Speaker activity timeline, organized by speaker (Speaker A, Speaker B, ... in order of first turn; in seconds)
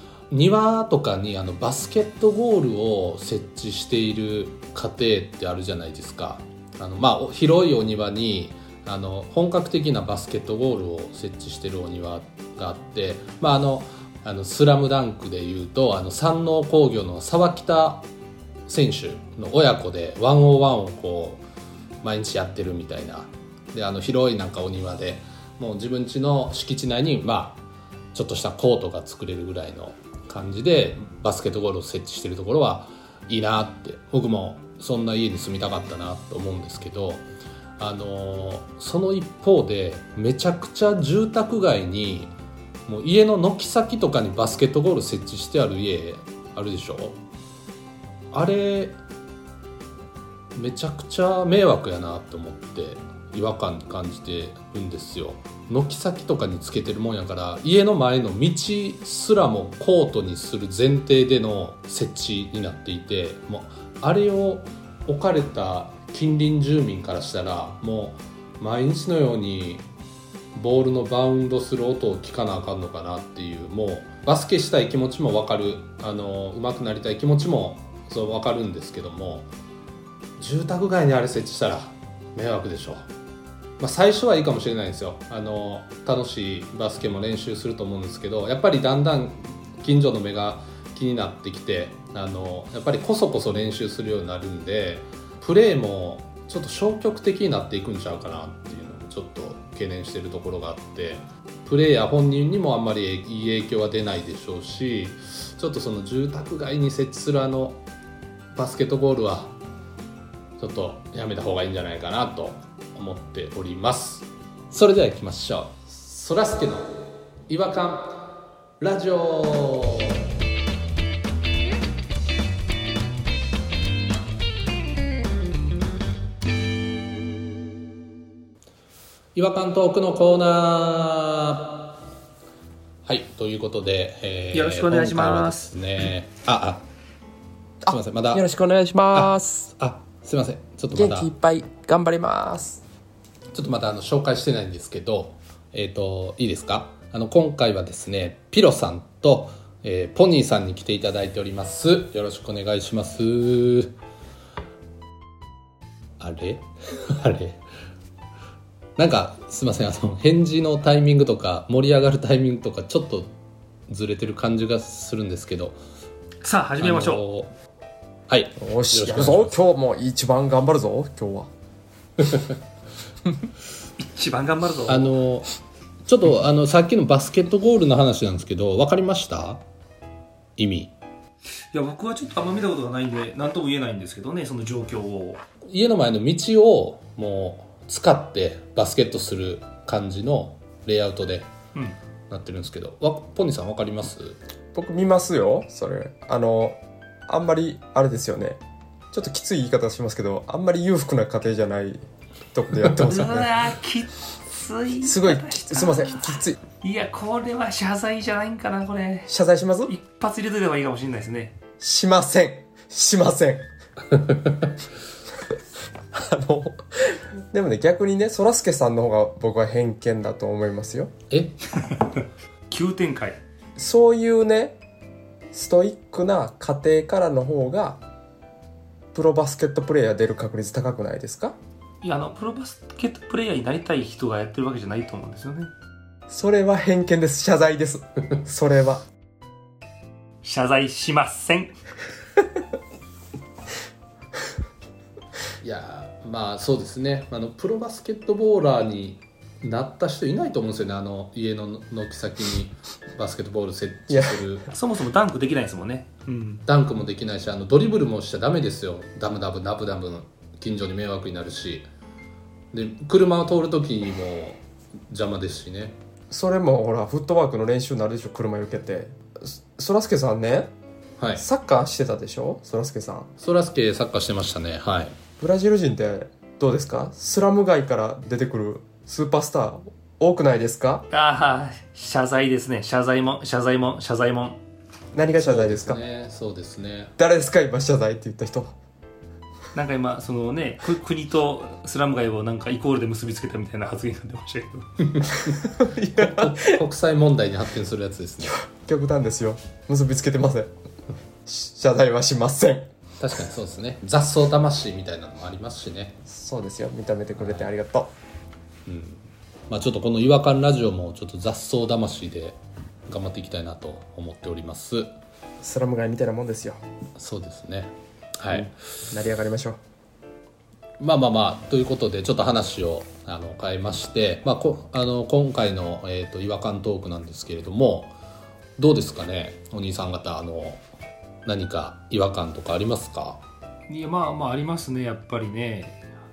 Speaker A: 0.3-18.1, 18.7-21.4, 22.0-27.6, 28.1-37.2, 37.8-42.3, 42.9-47.2, 48.3-49.0, 50.5-69.8, 70.5-79.5, 80.4-83.1, 83.8-107.8, 108.5-109.5, 110.6-120.2, 129.3-131.9, 133.1-136.8, 137.9-138.5, 139.1-141.3, 143.5-153.9, 156.2-157.6, 159.0-163.3, 163.9-165.8, 166.8-167.5, 168.3-169.6, 172.2-172.5, 174.9-175.5, 176.1-179.6, 180.6-180.9, 185.7-191.5, 192.3-194.4, 221.3-221.6, 245.6-254.7, 256.7-261.9, 262.7-266.0, 271.2-271.5, 273.4-275.1, 285.4-287.1, 295.1-298.6, 303.2-306.2, 307.4-307.7, 308.9-312.6, 313.1-315.1, 317.2-318.7, 321.0-328.1, 328.8-330.8, 331.5-333.4
Speaker B: 134.5-135.8, 166.4-167.2, 174.0-175.1, 181.7-185.4, 203.0-209.3, 209.9-211.6, 221.8-223.4, 232.0-235.7, 240.4-241.7, 254.7-256.6, 281.1-284.6, 289.7-295.1, 333.9-336.0
Speaker C: 137.8-139.7, 140.9-142.8, 168.6-171.5, 194.8-198.6, 199.1-203.5, 205.0-206.6, 209.3-209.9, 211.8-213.7, 216.1-221.1, 223.8-224.8, 225.5-228.0, 229.1-231.6, 236.3-239.0, 254.1-254.4, 266.3-270.7, 271.4-273.3, 275.4-281.1, 285.1-286.0, 287.2-288.7, 295.6-296.8, 298.4-300.7, 301.5-302.9, 306.3-308.1, 315.6-316.8, 318.5-319.8